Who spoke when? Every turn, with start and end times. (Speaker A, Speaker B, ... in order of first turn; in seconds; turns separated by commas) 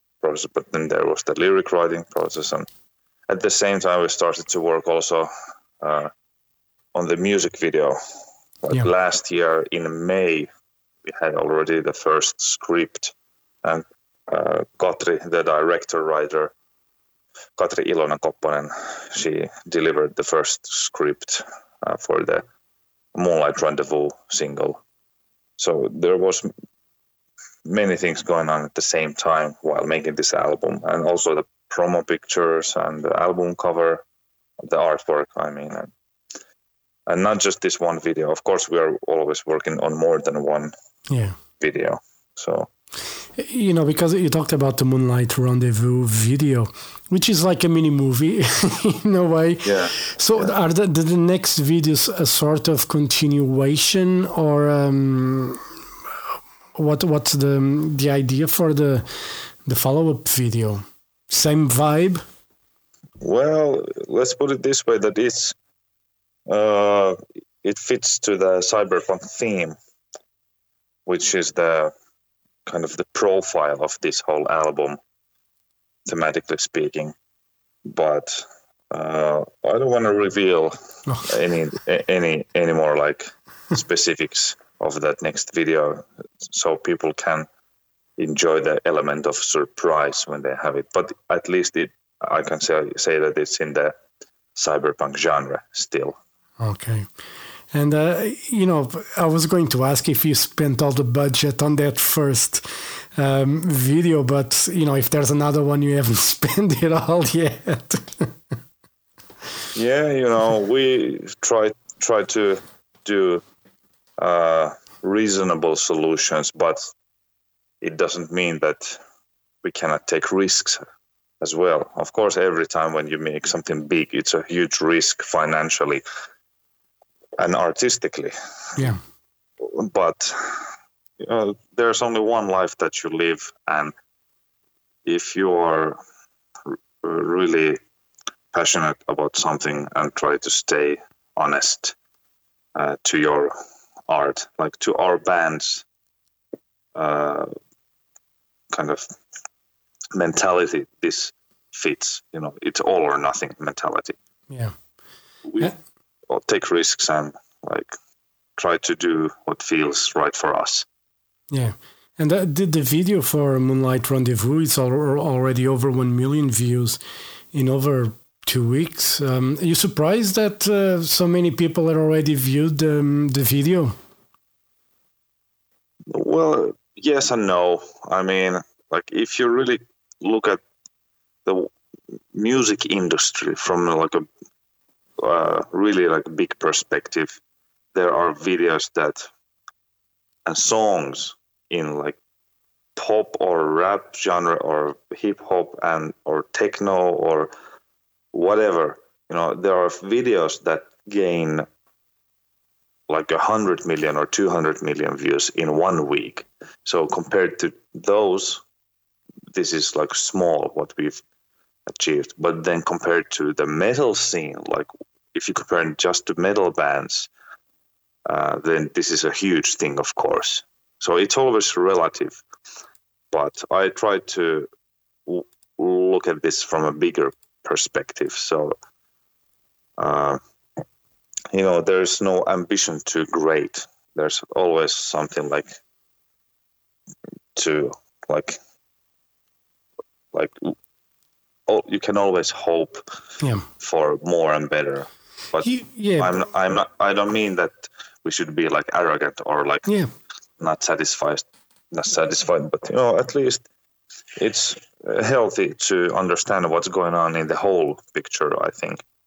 Speaker A: 0.2-2.7, Speaker A: 3.3-6.1, Speaker A: 6.9-8.0, Speaker A: 8.6-10.5, Speaker A: 11.0-16.5, Speaker A: 17.6-22.4, Speaker A: 23.1-24.8, Speaker A: 25.6-26.5, Speaker A: 27.6-34.0, Speaker A: 34.6-35.9, Speaker A: 37.1-40.7, Speaker B: 41.1-41.4, Speaker A: 41.6-42.7, Speaker B: 43.4-55.6, Speaker A: 49.6-50.5, Speaker B: 56.7-62.2, Speaker A: 63.2-65.5, Speaker A: 66.5-69.8, Speaker A: 71.0-71.9, Speaker A: 72.7-75.0, Speaker A: 76.0-77.1, Speaker A: 77.8-87.5, Speaker A: 88.2-94.0, Speaker A: 94.5-96.2, Speaker B: 96.6-97.1, Speaker B: 97.7-108.3, Speaker A: 109.7-113.4, Speaker A: 114.2-116.9, Speaker A: 117.8-119.0, Speaker A: 119.6-120.8, Speaker A: 121.4-126.0, Speaker A: 127.4-128.3, Speaker A: 129.6-133.9, Speaker A: 135.0-136.0, Speaker A: 136.7-137.8, Speaker A: 138.5-141.9, Speaker A: 142.7-143.5, Speaker A: 144.1-145.8, Speaker A: 146.9-147.5, Speaker A: 148.7-149.1, Speaker A: 150.1-154.2, Speaker B: 154.5-154.8, Speaker A: 155.4-155.7, Speaker A: 156.3-157.9, Speaker A: 158.6-160.8, Speaker B: 161.5-167.0, Speaker B: 167.5-173.9, Speaker A: 176.1-180.6, Speaker A: 181.4-181.7, Speaker A: 182.3-184.3, Speaker A: 185.2-187.4, Speaker A: 187.9-189.3, Speaker A: 190.4-192.2, Speaker A: 192.9-197.5, Speaker A: 198.3-201.7, Speaker A: 203.1-208.6, Speaker A: 209.5-211.2, Speaker A: 211.9-217.3, Speaker A: 218.2-222.4, Speaker A: 223.3-224.7, Speaker A: 225.2-228.8, Speaker A: 230.0-230.4, Speaker A: 231.5-235.7, Speaker A: 237.5-238.6, Speaker A: 240.3-240.7, Speaker A: 241.7-243.0, Speaker B: 243.4-243.7, Speaker A: 243.8-249.9, Speaker B: 245.6-246.3, Speaker B: 249.8-250.1, Speaker A: 250.6-253.7, Speaker A: 254.4-259.0